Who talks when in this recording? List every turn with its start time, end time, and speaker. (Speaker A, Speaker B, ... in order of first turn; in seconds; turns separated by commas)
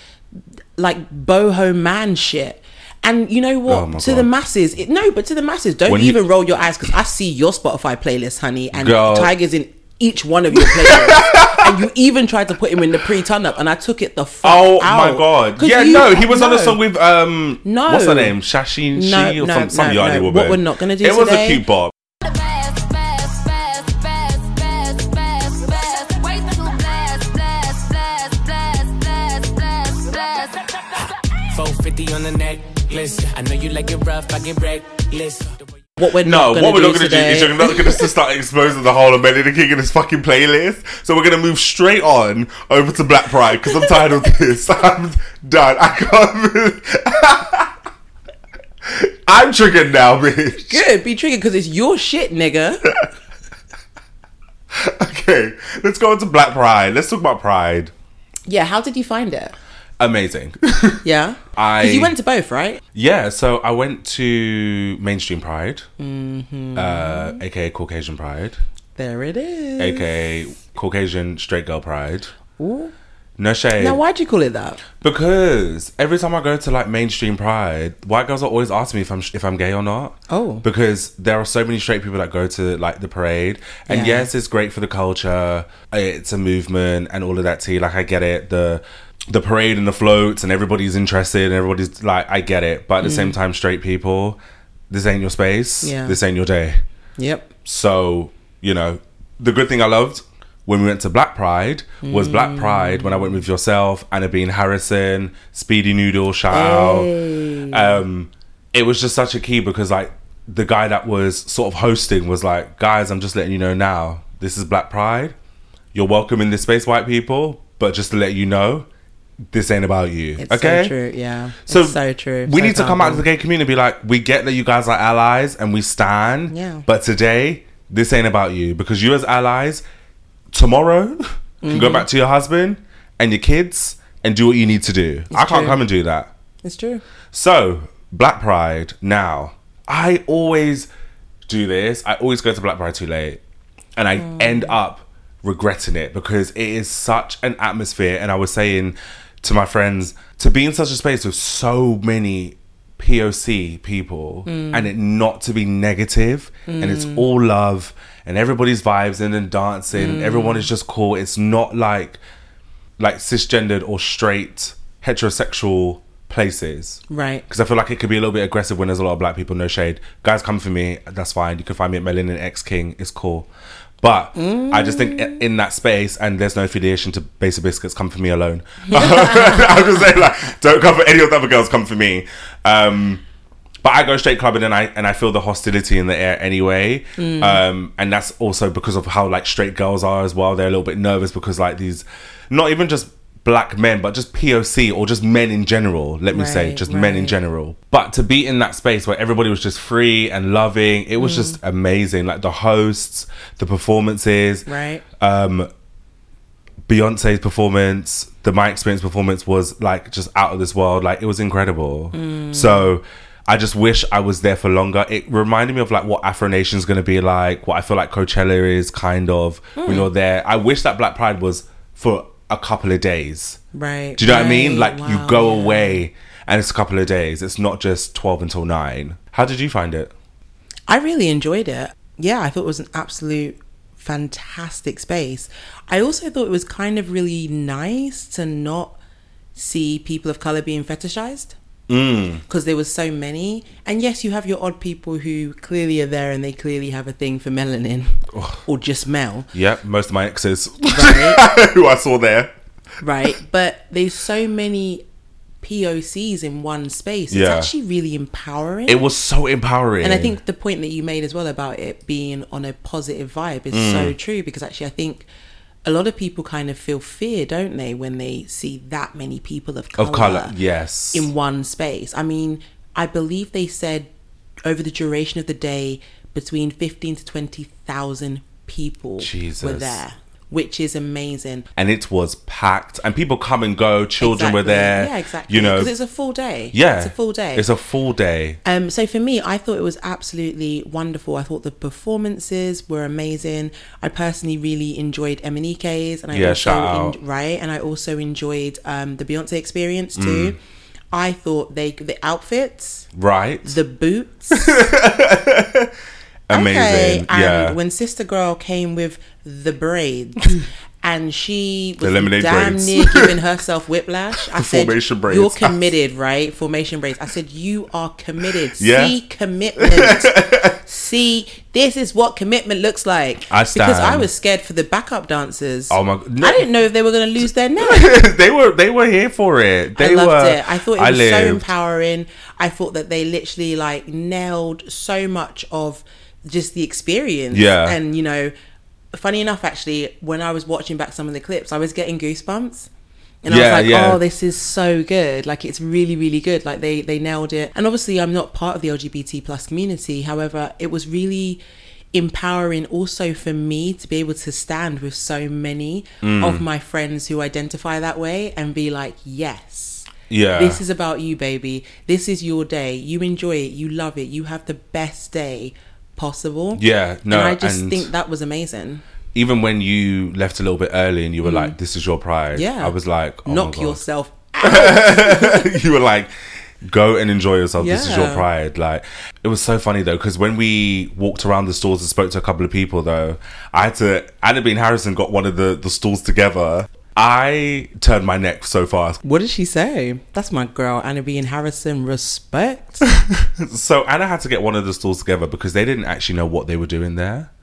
Speaker A: 0.8-16.8, Speaker B: 3.7-4.3, Speaker B: 5.9-6.2, Speaker B: 8.7-9.3, Speaker B: 10.6-11.7, Speaker B: 14.4-21.9, Speaker A: 17.6-18.4, Speaker A: 18.9-21.6, Speaker C: 31.5-35.8, Speaker A: 36.0-38.1, Speaker B: 36.2-47.7, Speaker A: 43.6-44.2, Speaker B: 48.9-50.8, Speaker A: 50.6-52.8, Speaker B: 54.7-57.9, Speaker A: 58.5-59.6, Speaker B: 60.0-61.0, Speaker A: 61.0-62.8, Speaker B: 61.6-62.1, Speaker B: 62.9-65.9, Speaker A: 66.0-67.4, Speaker B: 66.8-68.6, Speaker A: 69.0-70.1, Speaker B: 69.8-72.3, Speaker A: 72.6-72.9, Speaker B: 73.4-74.0, Speaker A: 73.8-74.8, Speaker B: 75.0-94.4, Speaker A: 80.3-80.7, Speaker A: 83.9-84.3, Speaker A: 93.0-93.4, Speaker B: 94.9-96.8, Speaker A: 95.8-96.2, Speaker A: 97.2-97.5, Speaker B: 97.7-107.1, Speaker A: 102.0-103.4, Speaker A: 106.5-108.0, Speaker B: 107.7-115.3, Speaker B: 115.9-118.9, Speaker B: 119.5-120.9, Speaker A: 120.4-123.3, Speaker B: 121.7-129.8, Speaker A: 126.5-126.9, Speaker B: 130.5-136.3, Speaker A: 131.6-132.1, Speaker A: 135.3-135.8, Speaker A: 136.6-137.0, Speaker B: 137.3-140.9, Speaker B: 141.5-143.4, Speaker B: 144.0-162.2, Speaker A: 144.2-144.7, Speaker A: 154.5-154.9, Speaker A: 156.7-157.3, Speaker A: 159.9-160.7, Speaker B: 163.0-173.5, Speaker A: 167.1-167.5, Speaker B: 174.0-183.2, Speaker A: 174.4-175.4, Speaker A: 178.9-180.1, Speaker B: 183.8-204.7, Speaker A: 187.2-187.6, Speaker A: 196.3-197.4, Speaker A: 201.2-201.6, Speaker A: 204.7-205.0, Speaker B: 205.2-205.7, Speaker B: 206.9-223.6, Speaker A: 212.1-212.9, Speaker A: 219.8-220.1, Speaker A: 223.7-226.0, Speaker B: 224.2-230.1, Speaker A: 230.9-239.0, Speaker A: 239.6-241.6, Speaker B: 241.9-242.4, Speaker A: 242.5-249.5, Speaker B: 248.3-248.6, Speaker B: 249.5-252.5, Speaker A: 250.9-251.4, Speaker A: 253.0-255.0, Speaker A: 255.6-259.0, Speaker B: 257.3-257.7, Speaker B: 258.9-260.4, Speaker A: 260.0-265.3, Speaker B: 263.7-264.1, Speaker A: 265.9-270.6, Speaker B: 270.0-271.3, Speaker A: 271.1-274.1, Speaker A: 274.6-281.7, Speaker B: 279.2-280.0, Speaker B: 281.8-285.9, Speaker A: 284.2-287.7, Speaker B: 286.7-288.6, Speaker A: 288.6-300.6, Speaker B: 296.3-297.2, Speaker B: 300.2-300.6, Speaker A: 301.1-303.1, Speaker B: 303.1-303.8, Speaker A: 303.6-304.7, Speaker B: 304.5-305.9, Speaker B: 306.5-307.8, Speaker A: 306.5-328.2, Speaker B: 312.0-313.4, Speaker B: 314.4-315.8, Speaker B: 318.8-319.1, Speaker B: 319.8-320.8, Speaker B: 323.5-324.3, Speaker B: 325.9-326.7, Speaker B: 327.8-331.6, Speaker A: 329.9-338.5, Speaker B: 337.5-338.0, Speaker A: 339.1-342.9, Speaker A: 343.4-351.6, Speaker B: 343.5-344.2, Speaker A: 352.1-369.0, Speaker B: 356.2-356.6, Speaker B: 360.3-360.8, Speaker B: 366.8-368.1, Speaker B: 369.3-374.0, Speaker A: 371.4-371.8, Speaker A: 372.5-375.8, Speaker B: 374.6-376.3, Speaker B: 376.8-389.2, Speaker A: 377.8-378.5, Speaker A: 389.2-393.0, Speaker B: 393.2-397.5